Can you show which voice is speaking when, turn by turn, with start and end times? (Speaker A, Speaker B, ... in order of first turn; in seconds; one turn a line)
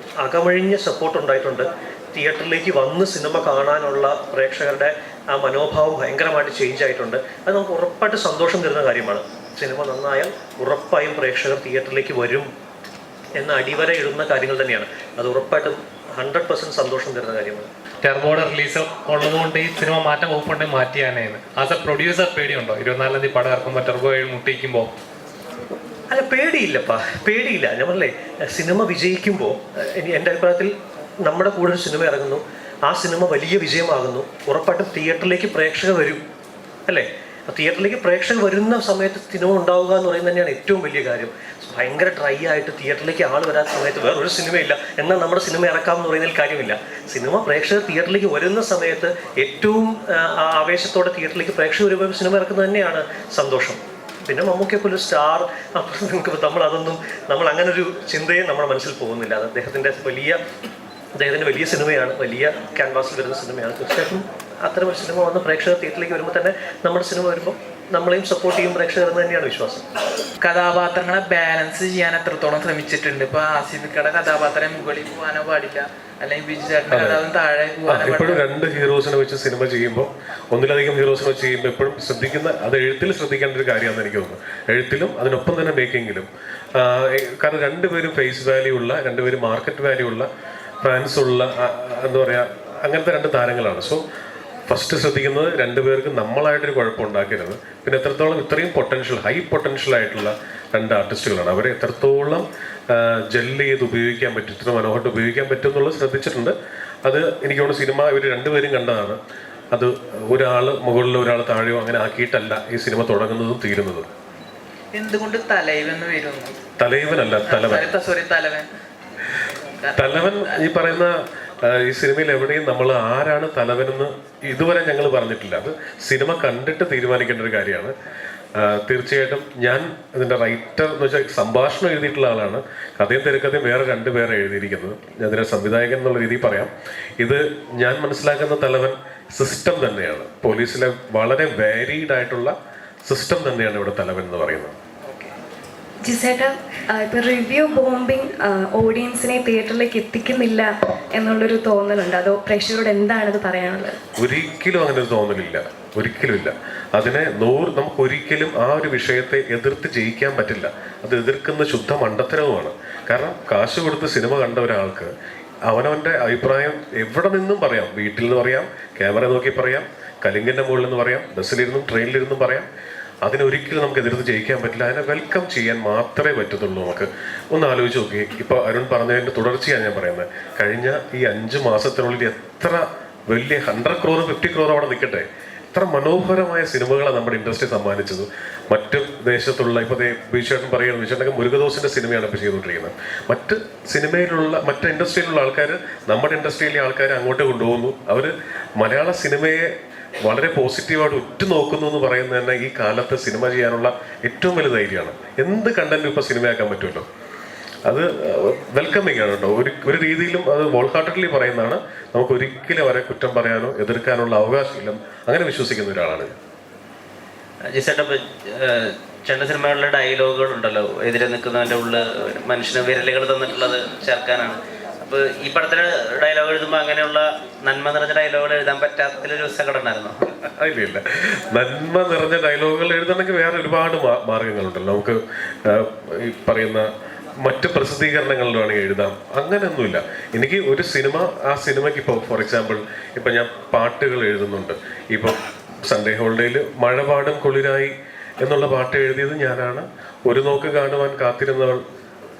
Speaker A: 0.2-12.5
Speaker A: 13.4-17.6
Speaker B: 18.0-24.9
Speaker A: 26.1-30.7
Speaker A: 31.2-36.2
Speaker A: 36.9-49.9
Speaker A: 50.4-60.4
Speaker A: 61.2-69.8
Speaker C: 70.4-78.5
Speaker D: 76.9-77.2
Speaker D: 77.8-90.3
Speaker D: 90.8-94.0
Speaker D: 94.7-106.5
Speaker D: 107.0-109.2
Speaker D: 109.7-114.0
Speaker C: 114.9-116.5
Speaker D: 116.8-117.9
Speaker C: 117.5-118.7
Speaker C: 119.8-120.7
Speaker D: 120.0-127.9
Speaker D: 128.6-144.8
Speaker C: 145.1-145.3
Speaker E: 146.0-154.0
Speaker D: 154.2-165.1
Speaker D: 165.7-172.7
Speaker D: 173.2-199.7
Speaker D: 200.2-207.0
Speaker D: 207.8-216.3
Speaker F: 217.7-230.2
Speaker D: 230.6-236.9
Speaker D: 237.4-251.8